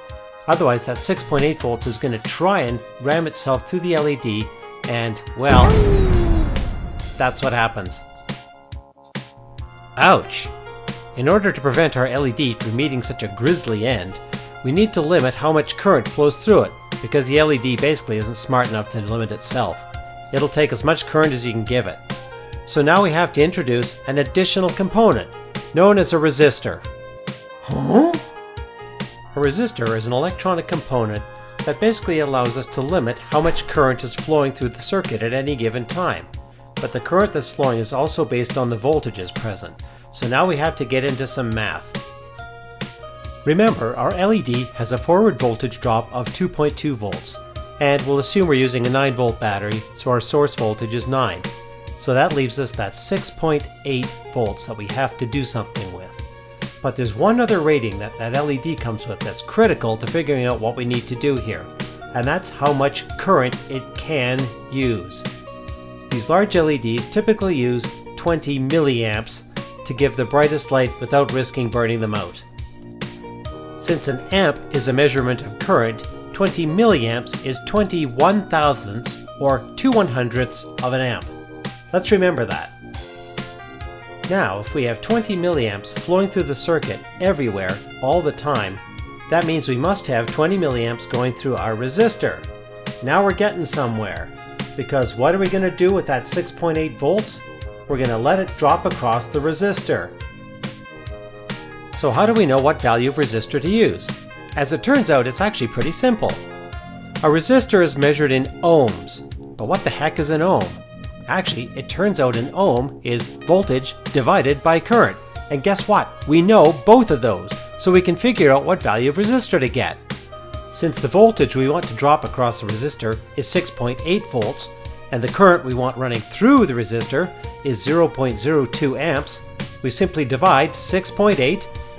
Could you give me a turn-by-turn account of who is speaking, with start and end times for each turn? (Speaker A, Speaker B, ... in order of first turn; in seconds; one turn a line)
Speaker A: 0.5-6.1
Speaker A: 7.2-8.1
Speaker A: 10.0-10.5
Speaker A: 11.2-22.0
Speaker A: 22.7-26.9
Speaker A: 27.6-28.2
Speaker A: 29.3-42.0
Speaker A: 43.5-51.5
Speaker A: 52.0-56.2
Speaker A: 56.8-65.3
Speaker A: 66.1-72.5
Speaker A: 73.8-81.3
Speaker A: 81.9-82.7
Speaker A: 84.3-92.5
Speaker A: 93.0-100.2
Speaker A: 101.9-106.5
Speaker A: 107.2-120.0
Speaker A: 120.7-131.7